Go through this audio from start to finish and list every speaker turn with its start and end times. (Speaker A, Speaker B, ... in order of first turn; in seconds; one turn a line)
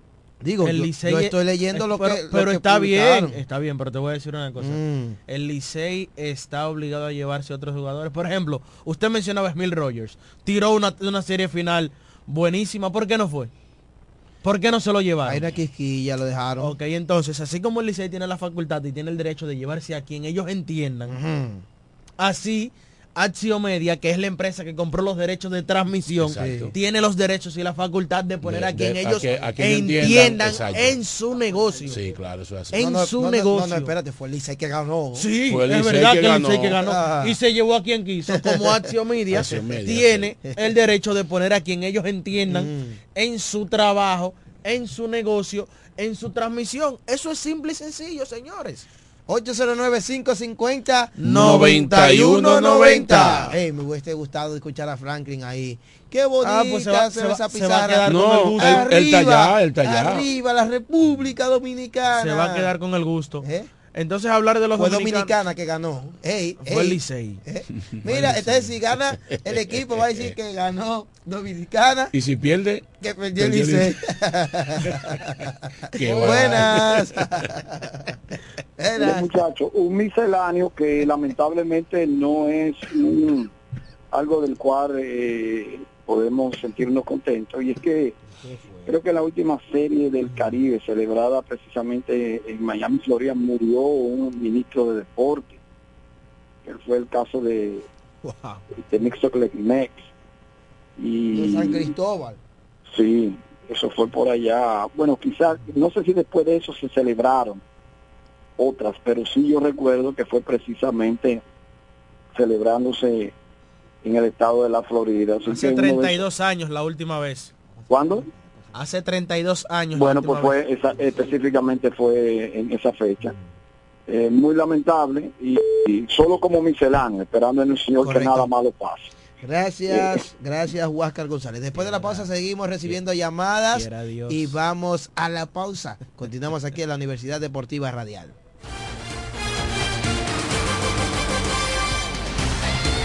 Speaker A: 0.4-3.4
Speaker B: 0.6-13.5
Speaker A: 4.6-5.2
Speaker B: 14.4-15.5
Speaker A: 15.3-16.8
Speaker B: 16.6-21.2
Speaker A: 21.1-21.6
Speaker B: 22.2-32.0
Speaker C: 26.2-26.7
Speaker A: 26.4-26.7
Speaker C: 28.4-31.0
Speaker A: 29.2-32.1
Speaker C: 31.9-32.9
Speaker B: 32.7-33.9
Speaker A: 32.7-35.3
Speaker B: 35.1-48.9
Speaker C: 35.5-36.8
Speaker A: 36.8-37.4
Speaker A: 38.3-38.9
Speaker C: 39.3-40.3
Speaker A: 42.5-43.0
Speaker A: 49.3-62.7
Speaker B: 51.2-53.2
Speaker C: 51.2-53.5
Speaker B: 56.4-58.9
Speaker C: 58.1-60.3
Speaker B: 62.1-65.4
Speaker A: 63.4-63.7
Speaker A: 64.8-72.1
Speaker B: 66.6-67.4
Speaker C: 68.0-68.7
Speaker C: 72.1-74.0
Speaker A: 73.0-78.1
Speaker C: 74.9-75.4
Speaker C: 75.9-77.5
Speaker A: 78.8-79.3
Speaker D: 79.0-83.5
Speaker D: 84.1-88.2
Speaker A: 88.4-88.9
Speaker D: 88.9-95.6
Speaker D: 96.7-97.9
Speaker D: 98.9-100.1
Speaker D: 101.0-101.9
Speaker A: 101.3-102.4
Speaker D: 102.9-107.6
Speaker D: 108.6-111.4
Speaker D: 112.3-113.3
Speaker D: 114.0-116.2
Speaker B: 115.5-117.5
Speaker A: 117.9-118.2
Speaker D: 117.9-118.3
Speaker B: 118.7-120.6
Speaker D: 119.9-123.3
Speaker D: 124.1-129.1
Speaker A: 128.0-128.5
Speaker A: 129.4-138.4
Speaker D: 129.9-130.2
Speaker B: 131.7-132.3
Speaker B: 133.7-134.6